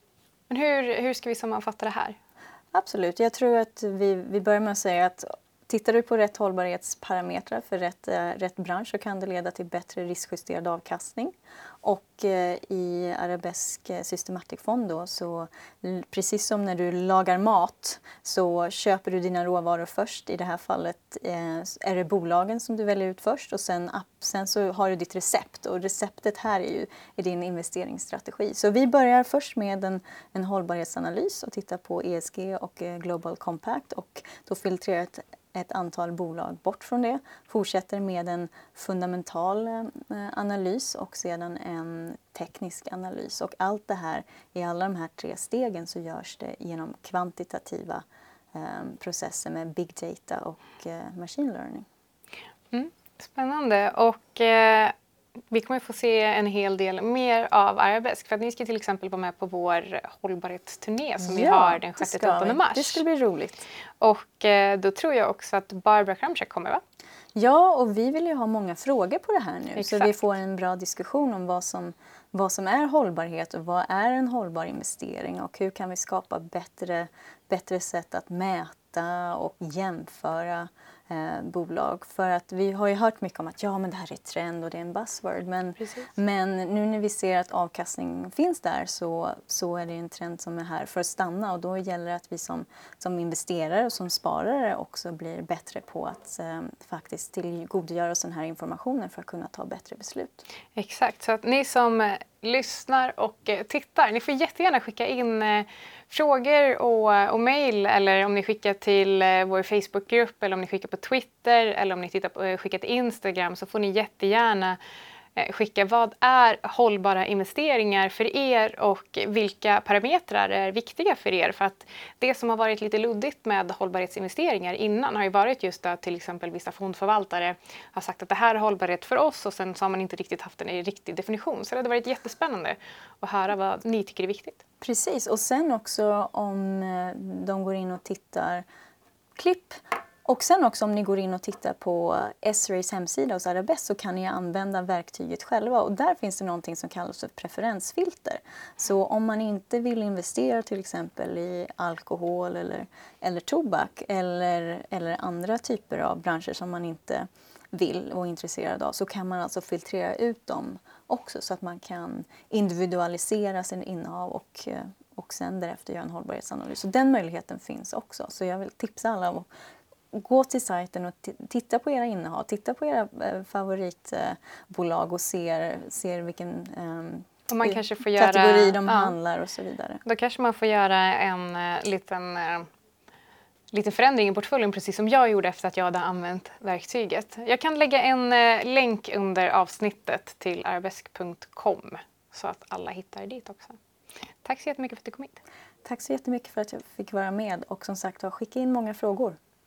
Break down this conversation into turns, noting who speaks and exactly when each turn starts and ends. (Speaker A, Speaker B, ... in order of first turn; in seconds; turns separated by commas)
Speaker A: 0.5-2.2, Speaker B: 2.7-51.9, Speaker A: 52.7-54.9, Speaker A: 55.5-63.0, Speaker B: 61.2-63.6, Speaker A: 64.0-66.8, Speaker B: 67.3-100.4, Speaker A: 69.8-70.2, Speaker A: 85.8-86.1, Speaker A: 100.8-114.8, Speaker A: 115.4-134.6, Speaker B: 134.8-138.7, Speaker B: 139.4-169.5, Speaker B: 170.1-180.0, Speaker A: 177.5-179.1, Speaker A: 180.0-182.7, Speaker A: 183.7-193.8, Speaker A: 194.4-195.4, Speaker B: 195.8-199.4